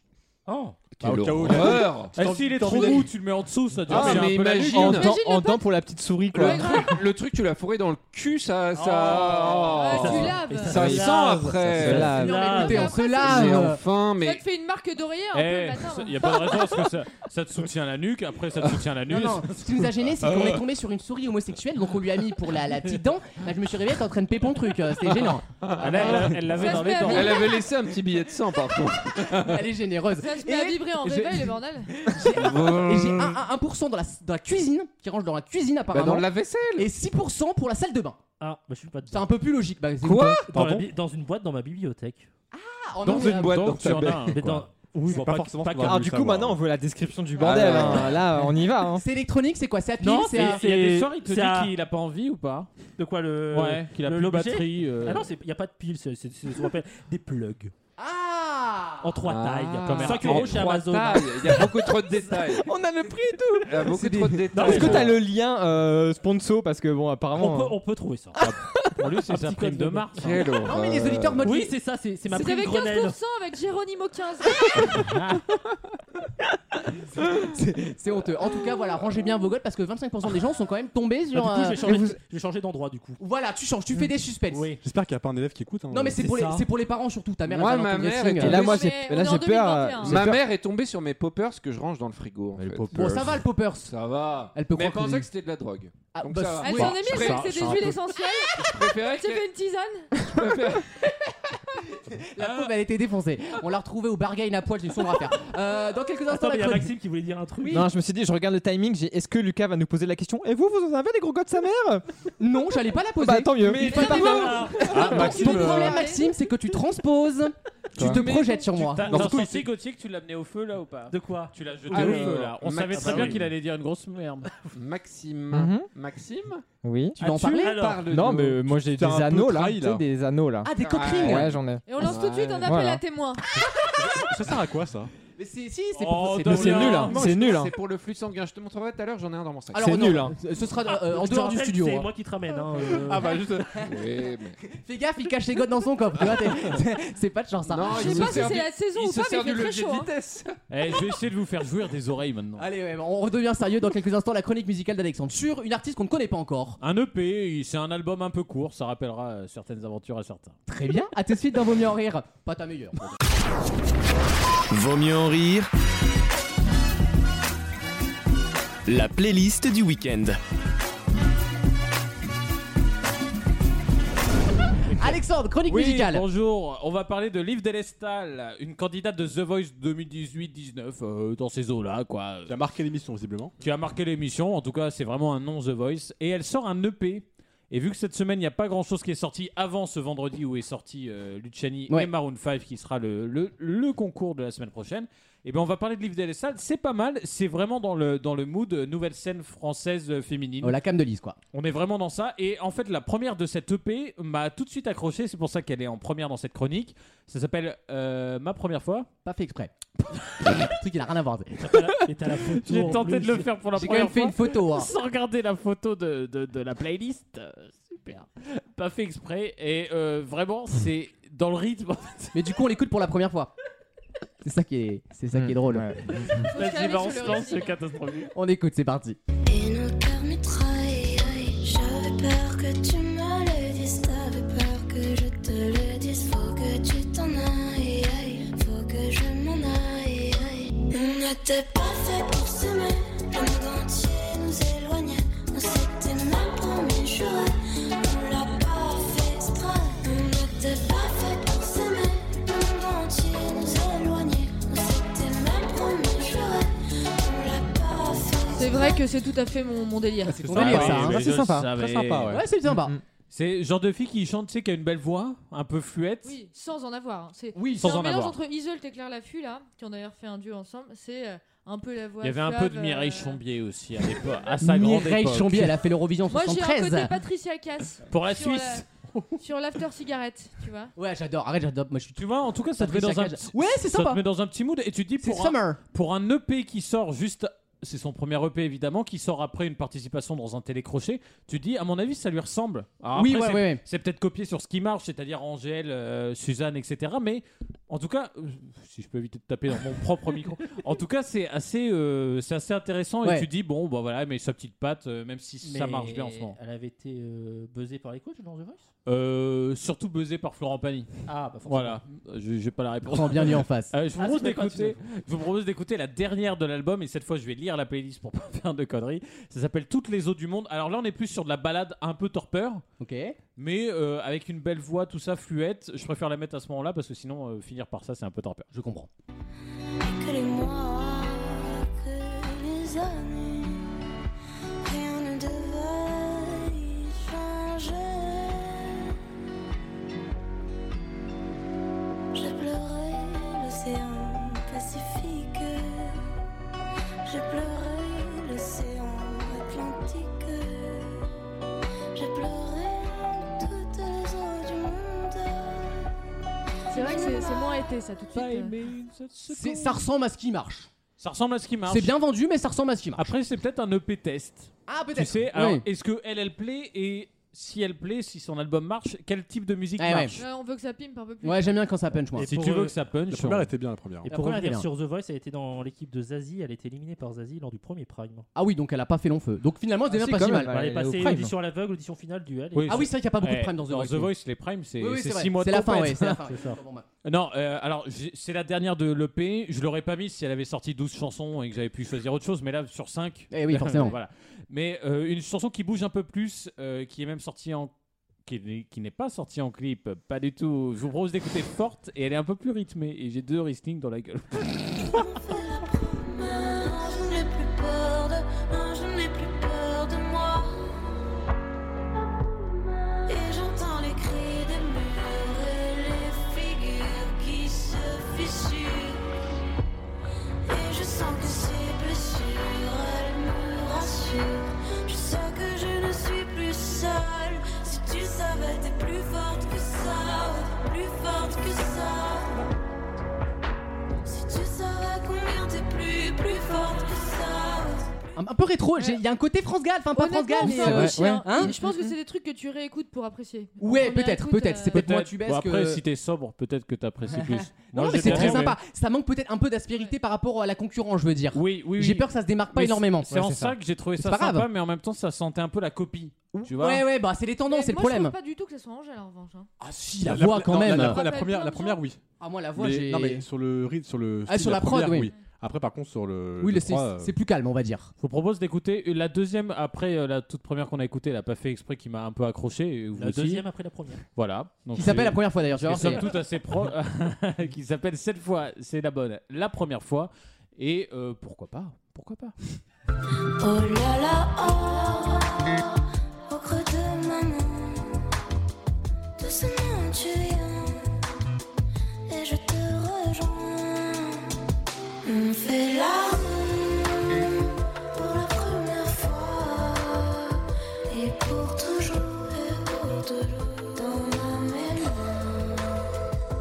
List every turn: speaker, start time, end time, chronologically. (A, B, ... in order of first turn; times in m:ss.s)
0:00.5-0:00.9 A
0:01.0-0:02.2 B
0:01.0-0:03.1 C
0:02.2-0:05.1 D
0:03.9-0:05.2 B
0:03.9-0:07.0 E
0:04.8-0:05.7 F
0:06.3-0:07.0 F
0:06.4-0:12.2 B
0:08.8-0:13.0 A
0:09.7-0:10.9 F
0:10.7-0:12.5 E
0:11.9-0:13.8 G
0:12.2-0:13.6 F
0:13.1-0:14.4 B
0:14.2-0:16.8 F
0:15.3-0:19.7 D
0:19.1-0:25.5 G
0:20.2-0:20.6 B
0:25.1-0:29.6 B
0:25.7-0:27.5 D
0:26.5-0:27.7 F
0:29.3-0:38.2 G
0:30.2-0:31.9 F
0:32.2-0:33.4 B
0:35.9-0:36.9 B
0:38.4-0:39.3 A
0:39.1-0:40.5 G
0:40.0-0:40.4 B
0:40.5-0:42.3 A
0:40.5-0:40.9 C
0:42.5-0:43.8 G
0:43.0-0:44.3 B
0:43.1-0:44.7 D
0:44.3-0:46.0 A
0:45.1-0:46.6 C
0:45.8-0:49.0 E
0:47.4-0:48.2 B
0:48.9-0:50.6 G
0:50.0-0:51.7 A
0:50.1-0:52.7 D
0:53.0-0:57.7 A
0:53.5-0:55.3 D
0:58.0-0:59.2 G
0:59.0-1:02.2 A
0:59.3-1:02.7 B
0:59.8-1:00.6 D
1:02.5-1:07.8 E
1:03.6-1:05.2 B
1:03.8-1:05.1 G
1:04.5-1:05.1 A
1:07.3-1:08.5 A
1:09.0-1:10.4 D
1:09.2-1:10.5 A
1:10.2-1:11.4 B
1:10.6-1:11.8 G
1:11.4-1:13.2 A
1:12.3-1:15.0 F
1:15.0-1:15.4 A
1:17.2-1:21.9 G
1:21.3-1:23.2 A
1:21.8-1:22.2 E
1:23.2-1:24.8 G
1:24.0-1:24.8 A
1:24.8-1:26.6 C
1:25.9-1:28.7 G
1:27.5-1:28.9 B
1:28.4-1:30.4 E
1:28.6-1:30.2 F
1:30.0-1:33.3 B
1:32.6-1:33.4 C
1:32.9-1:34.0 G
1:33.8-1:37.9 B
1:34.5-1:35.3 G
1:36.1-1:37.4 G
1:36.6-1:40.1 F
1:38.6-1:39.4 B
1:40.2-1:40.9 B
1:41.0-1:46.9 G
1:46.3-1:47.9 A
1:47.7-1:52.0 E
1:52.4-1:59.3 G
1:53.2-1:55.2 E
1:53.6-1:55.6 A
1:53.8-1:56.3 F
1:54.8-1:56.0 C
1:58.0-1:58.2 E
1:58.0-2:04.6 D
1:58.9-1:59.7 A
1:59.1-1:59.5 C
2:01.1-2:02.4 A
2:01.9-2:03.5 B
2:02.9-2:03.4 A
2:04.7-2:06.6 B
2:05.5-2:05.9 E
2:06.8-2:07.5 E
2:07.2-2:07.9 G
2:07.3-2:08.1 A
2:07.7-2:08.6 B
2:08.1-2:12.1 E
2:08.8-2:10.0 C
2:10.6-2:11.5 G
2:10.8-2:12.8 B
2:11.9-2:13.4 F
2:12.6-2:13.0 E
2:13.8-2:14.3 G
2:14.0-2:15.1 C
2:15.4-2:17.1 G
2:16.0-2:17.4 D
2:16.4-2:17.8 E
2:16.8-2:20.1 B
2:19.7-2:22.1 G
2:19.8-2:20.4 E
2:20.9-2:23.4 A
2:22.9-2:23.9 C
2:23.8-2:24.6 B
2:24.7-2:28.5 G
2:27.7-2:30.6 B
2:27.9-2:30.1 F
2:30.7-2:32.7 D
2:32.6-2:36.8 G
2:36.8-2:40.6 D
2:40.7-2:43.1 G
2:44.7-2:45.7 H
2:48.9-2:50.4 H
2:55.0-2:56.3 G
2:55.7-3:02.6 D
3:02.5-3:03.5 C
3:03.6-3:20.8 D
3:20.6-3:21.4 G
3:21.5-3:29.1 D
3:29.2-3:29.7 G
3:30.3-3:31.7 G
3:31.6-3:33.6 A
3:32.5-3:42.4 D
3:33.8-3:34.9 G
3:42.3-3:43.5 G
3:44.4-3:46.4 G
3:45.3-3:46.5 E
3:46.5-3:47.8 F
3:46.5-3:48.3 D
3:48.3-3:49.2 G
3:49.5-4:19.0 I
4:18.6-4:20.5 F
4:20.4-4:21.2 G
4:20.4-4:21.2 C
4:20.5-4:22.4 D
4:20.6-4:23.0 E
4:22.3-4:23.0 G
4:23.3-4:26.4 D
4:26.2-4:33.4 F
4:27.6-4:27.9 G
4:27.8-4:28.4 D
4:32.2-4:35.8 D
4:34.6-4:37.1 G
4:36.3-4:38.8 F
4:38.1-4:38.9 D
4:39.4-4:40.9 F
4:41.0-4:44.2 G
4:42.2-5:06.6 D
4:45.2-4:45.8 G
4:53.1-4:53.8 G
5:05.6-5:08.9 A
5:09.1-5:22.8 D
5:11.3-5:12.0 A
5:13.1-5:14.0 G
5:14.2-5:15.0 A
5:23.0-5:23.4 G
5:23.6-5:28.7 D
5:28.7-5:29.1 G
5:30.0-5:34.0 I
5:34.8-5:39.1 I
5:42.3-5:46.2 I
5:47.2-5:51.3 I
5:52.1-5:56.1 I
5:56.9-5:58.7 F
5:56.9-5:57.9 I
5:58.3-6:00.0 D
5:59.5-6:00.9 G
6:01.2-6:02.1 D
6:01.9-6:03.3 G
6:03.2-6:10.4 D
6:04.9-6:05.8 G
6:10.0-6:10.4 G
6:10.4-6:11.8 F
6:11.4-6:12.5 G
6:12.3-6:12.9 A
6:12.4-6:13.7 D
6:13.3-6:14.3 C
6:14.2-6:18.5 A
6:14.3-6:14.9 G
6:18.6-6:20.8 G
6:20.1-6:21.5 E
6:20.5-6:23.1 A
6:22.7-6:26.4 D
6:22.9-6:24.3 G
6:25.0-6:27.1 G
6:26.4-6:26.8 A
6:27.2-6:37.9 D
6:33.5-6:34.2 G
6:38.5-6:45.2 D
6:45.0-6:50.9 I
6:53.2-6:59.2 I
7:00.6-7:12.6 I
7:14.2-7:18.1 I
7:18.4-7:21.7 G
7:20.1-7:25.0 F
7:20.6-7:22.2 E
7:23.8-7:26.0 G
7:24.9-7:28.8 D
7:27.4-7:33.3 G
7:28.3-7:28.5 E
7:31.5-7:37.0 D
7:33.3-7:33.8 E
7:34.2-7:34.7 G
7:36.5-7:38.3 G
7:37.7-7:39.7 F
7:39.8-7:41.2 G
7:40.2-7:42.2 C
7:40.8-7:42.0 F
7:42.4-7:43.5 G
7:42.8-7:47.3 C
7:44.5-7:45.3 G
7:46.6-7:48.1 G
7:48.2-7:53.6 D
7:53.2-7:54.2 A
7:54.3-8:02.6 D
7:54.9-7:56.3 G
8:03.6-8:08.3 I
8:09.4-8:11.1 I
8:12.3-8:14.5 I
8:15.2-8:26.0 I